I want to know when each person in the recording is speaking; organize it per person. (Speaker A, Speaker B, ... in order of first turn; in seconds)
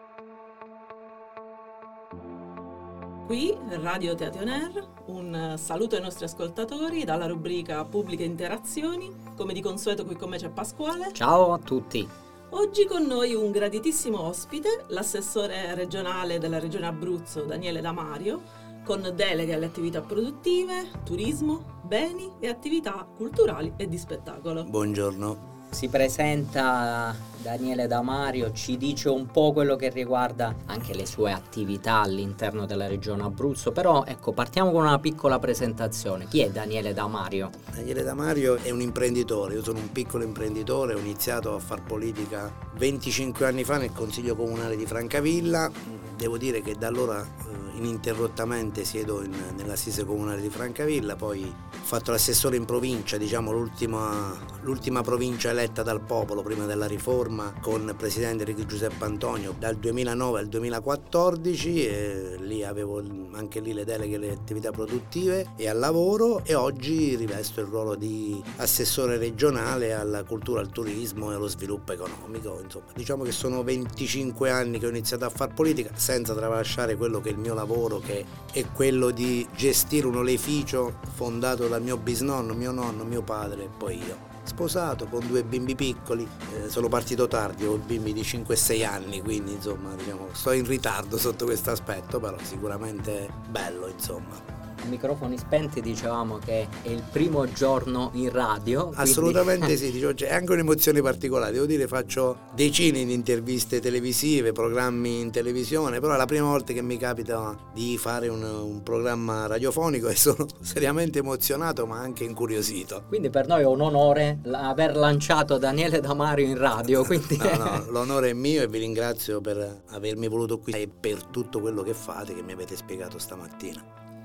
Speaker A: 3.2-11.2, 12.5-24.7
Speaker B: 11.1-12.1, 25.7-37.5, 94.8-99.8, 113.1-117.8
Speaker C: 24.7-25.4, 37.7-94.4, 98.9-113.0, 116.9-123.8